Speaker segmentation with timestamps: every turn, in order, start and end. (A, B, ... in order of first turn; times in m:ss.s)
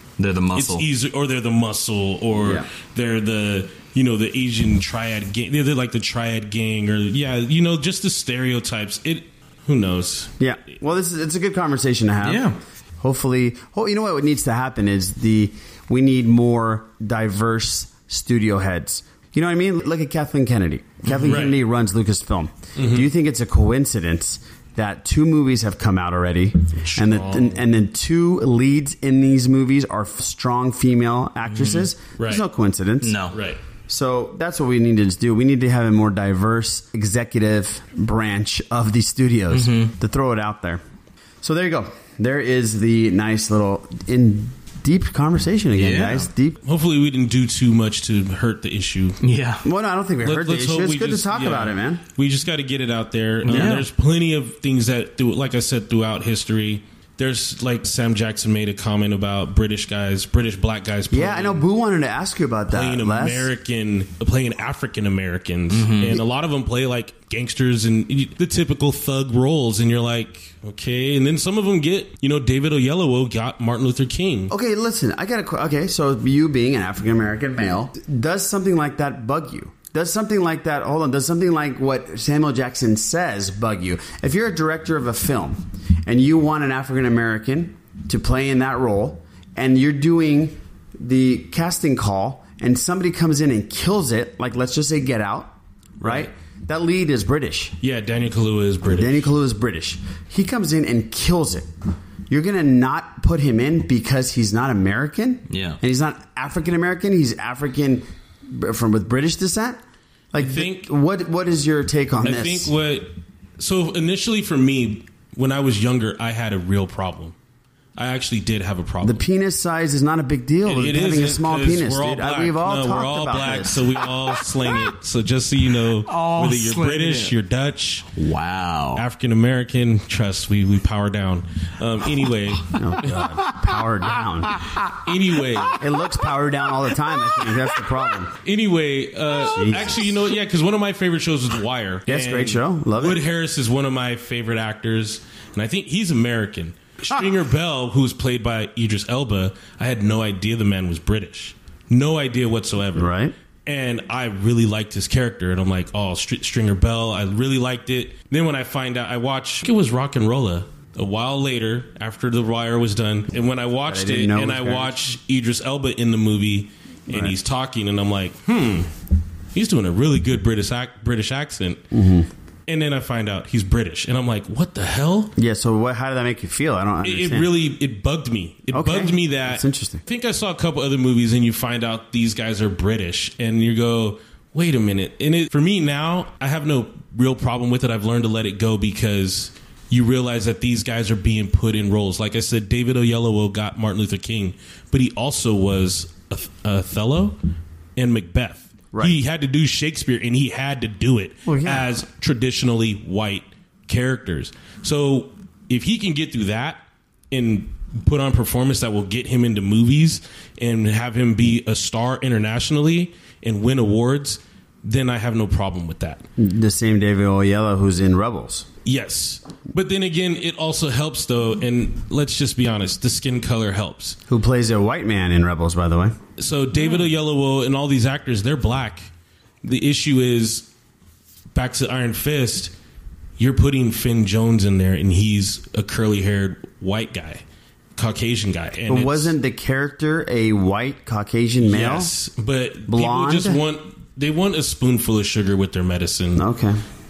0:00.2-0:00.8 A
0:00.5-0:10.3 B
0:02.3-0:02.7 C
0:10.4-0:33.2 C
0:12.2-0:12.6 A
0:21.0-0:21.4 A
0:21.2-0:21.6 B
0:22.8-0:23.1 B
0:26.8-0:27.6 B
0:32.2-0:32.4 B
0:33.0-0:33.4 A
0:33.3-0:33.6 B
0:33.9-0:40.8 C
0:39.5-0:39.9 A
0:41.4-0:46.6 C
0:45.8-0:46.3 A
0:46.6-0:49.2 B
0:49.2-0:49.6 A
0:49.6-0:52.0 C
0:50.2-1:01.6 B
0:53.4-0:53.8 A
0:53.5-0:53.8 C
1:01.1-1:03.5 C
1:02.7-1:14.5 B
1:05.7-1:06.2 A
1:14.5-1:37.8 C
1:36.0-1:36.3 B
1:37.8-1:39.3 B
1:38.8-1:41.7 C
1:42.3-1:49.8 C
1:45.5-1:45.8 A
1:50.3-1:52.7 C
1:50.3-1:50.9 B
1:52.2-1:57.3 B
1:58.0-1:59.2 B
1:59.0-2:04.0 C
2:00.6-2:08.1 B
2:06.1-2:07.3 A
2:08.2-2:09.0 A
2:08.9-2:13.3 B
2:12.6-2:14.6 C
2:14.8-2:15.8 B
2:15.8-2:18.3 C
2:18.4-2:33.1 B
2:19.4-2:20.1 C
2:22.1-2:23.2 C
2:32.9-2:33.3 C
2:33.6-2:48.9 B
2:43.8-2:45.0 C
2:47.1-2:47.4 C
2:49.5-2:51.8 B
2:51.9-2:52.3 C
2:52.7-2:55.3 B
2:55.4-2:57.5 C
2:57.0-3:17.4 B
2:58.7-3:00.0 C
3:18.0-3:36.2 B
3:21.4-3:21.9 C
3:36.4-3:38.7 C
3:38.8-3:44.2 B
3:44.3-3:46.2 C
3:46.4-3:49.1 B
3:49.6-3:50.7 B
3:51.5-3:52.7 B
3:53.4-3:57.4 B
3:58.0-3:59.3 B
3:58.9-4:02.1 C
4:01.6-4:06.4 B
4:02.9-4:03.6 C
4:06.4-4:06.8 C